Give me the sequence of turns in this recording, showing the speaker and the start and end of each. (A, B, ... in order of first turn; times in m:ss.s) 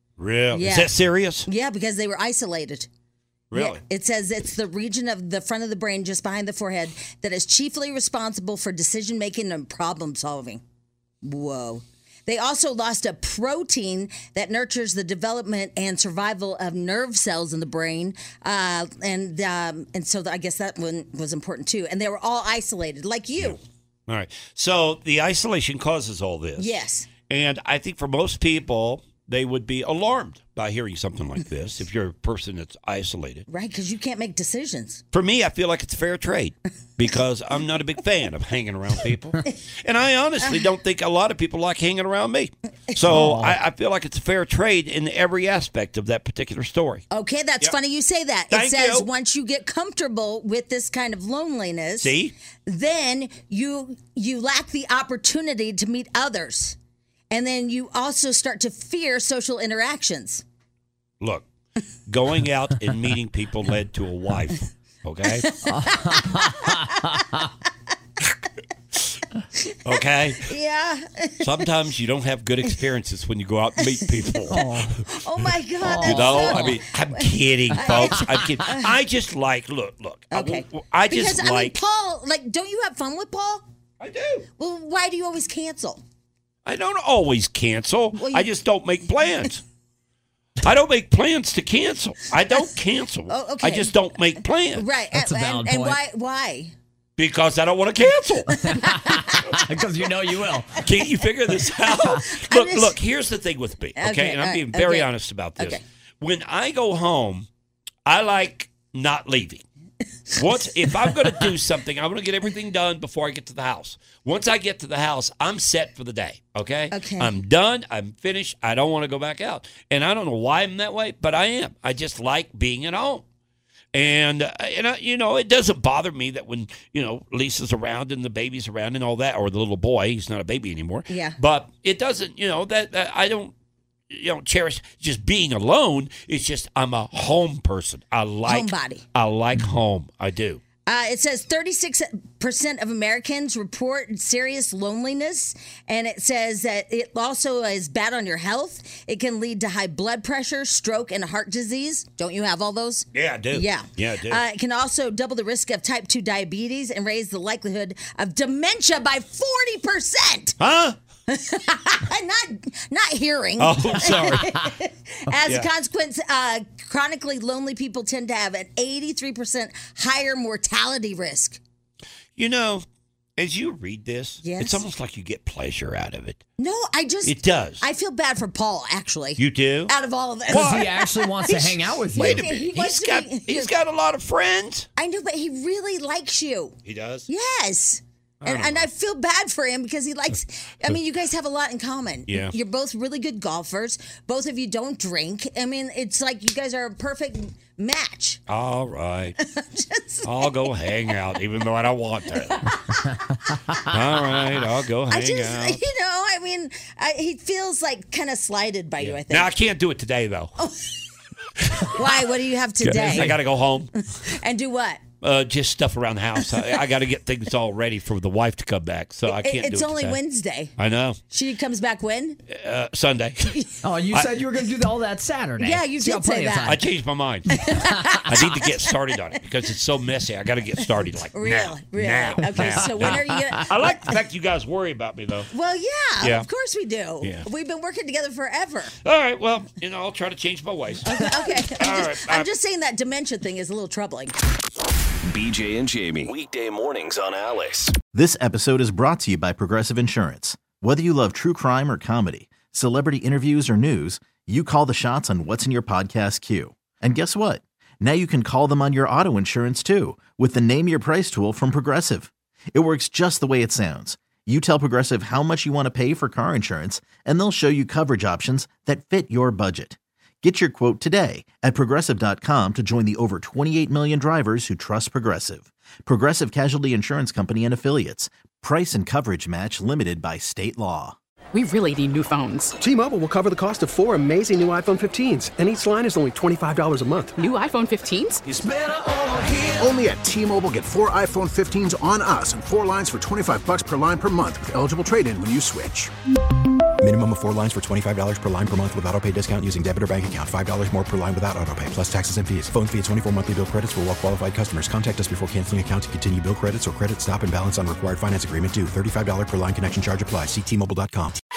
0:00.2-0:01.5 A
0:00.5-0:00.9 B
0:01.4-0:02.9 B
0:03.5-0:03.8 A
0:03.5-0:10.6 B
0:11.2-0:23.6 B
0:23.4-0:33.4 A
0:26.6-0:27.1 B
0:33.5-0:35.0 B
0:35.1-0:47.0 A
0:42.9-0:43.5 B
0:47.1-0:56.8 B
0:48.5-0:49.1 A
0:52.0-0:52.3 A
0:57.3-1:00.4 B
1:01.2-1:01.4 A
1:02.1-1:05.6 A
1:05.3-1:07.2 B
1:05.8-1:06.4 C
1:09.6-1:11.7 B
1:09.8-1:10.5 A
1:11.4-1:21.8 A
1:14.2-1:18.9 B
1:14.5-1:14.9 C
1:15.9-1:16.7 C
1:20.3-1:23.6 B
1:24.0-1:24.5 A
1:24.6-1:26.0 B
1:26.6-1:29.6 A
1:28.1-1:28.5 B
1:30.6-1:34.9 A
1:33.3-1:34.0 B
1:34.7-1:36.7 B
1:35.1-1:36.0 C
1:37.2-1:39.6 A
1:38.5-1:39.6 B
1:38.8-1:40.8 C
1:40.8-1:47.5 A
1:41.6-1:43.0 B
1:44.0-1:45.8 B
1:48.0-1:49.6 A
1:50.4-2:03.2 A
1:56.9-1:57.3 B
2:03.9-2:13.5 A
2:11.1-2:11.4 B
2:14.1-2:20.6 A
2:18.4-2:19.0 B
2:20.8-2:40.6 B
2:33.1-2:34.4 A
2:40.6-2:41.0 A
2:41.3-2:51.6 B
2:43.6-2:44.6 A
2:52.4-2:52.8 A
2:53.4-2:56.4 A
2:54.4-2:54.8 B
2:56.6-3:03.8 B
2:57.2-2:57.8 A
2:59.4-2:59.9 A
3:00.5-3:01.0 A
3:00.6-3:02.5 C
3:02.1-3:04.9 A
3:05.0-3:06.8 B
3:06.8-3:07.3 A
3:07.3-3:18.4 B
3:08.4-3:08.9 A
3:12.3-3:12.6 A
3:18.5-3:19.4 A
3:19.4-3:20.9 B
3:20.2-3:22.8 A
3:22.5-3:23.8 B
3:23.8-3:25.8 A
3:25.1-3:29.5 B
3:29.0-3:30.6 A
3:30.6-3:31.0 B
3:31.6-3:31.9 A
3:31.8-3:33.4 B
3:32.8-3:33.9 A
3:34.1-3:35.0 B
3:35.2-3:40.2 A
3:39.3-3:40.7 B
3:40.8-3:41.2 A
3:41.3-3:42.4 B
3:42.5-3:44.5 A
3:43.8-3:46.8 C
3:45.6-3:46.8 B
3:46.6-3:55.5 A
3:47.5-3:48.9 B
3:51.3-3:54.1 B
3:55.5-3:58.9 B
3:56.2-3:56.5 A
3:57.2-3:57.5 A
3:59.0-4:02.5 A
4:01.0-4:04.3 B
4:05.2-4:07.9 D
4:08.1-4:41.2 E
4:41.5-4:42.7 F
4:42.8-4:47.3 G
4:47.4-4:48.4 F
4:48.5-4:56.1 H
4:57.0-5:11.4 I